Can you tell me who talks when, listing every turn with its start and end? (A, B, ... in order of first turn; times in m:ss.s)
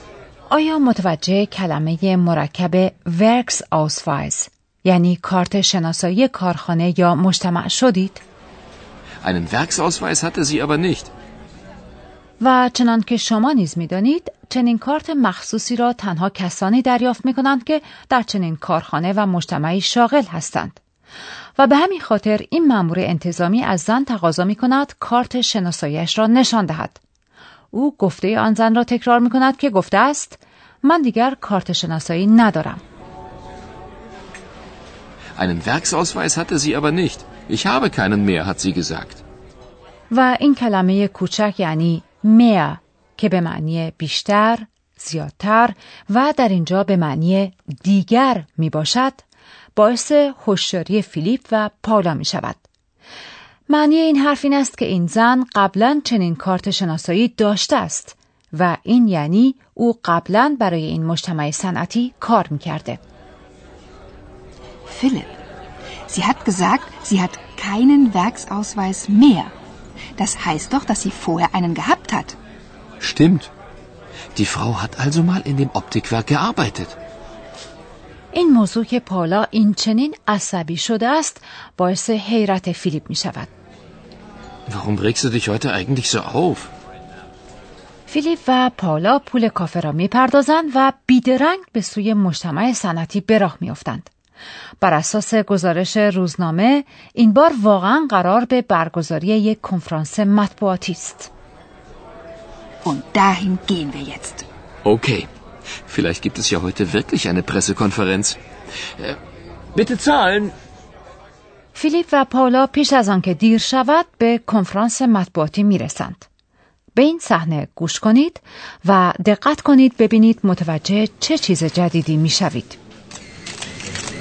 0:00.5-0:08.2 A
0:09.2-0:11.1 B
0:12.4-0:20.8 A
0:21.6-0:27.0 A
0:27.7-0:32.8 A
0:35.4-0:39.2 B
0:40.1-0:49.2 A
0:49.7-0:52.6 A
0:53.7-1:03.0 A
1:04.9-1:05.4 C
1:06.1-1:09.5 C
1:10.2-1:12.4 C
1:13.0-1:13.5 B
1:14.3-1:17.0 B
1:18.3-1:23.5 A
1:24.7-1:26.7 B
1:28.1-1:34.1 A
1:34.8-1:41.3 A
1:42.8-1:44.4 C
1:44.8-1:45.3 B
1:45.9-1:48.4 B
1:49.7-1:50.5 B
1:51.7-1:56.2 A
1:56.9-2:02.8 A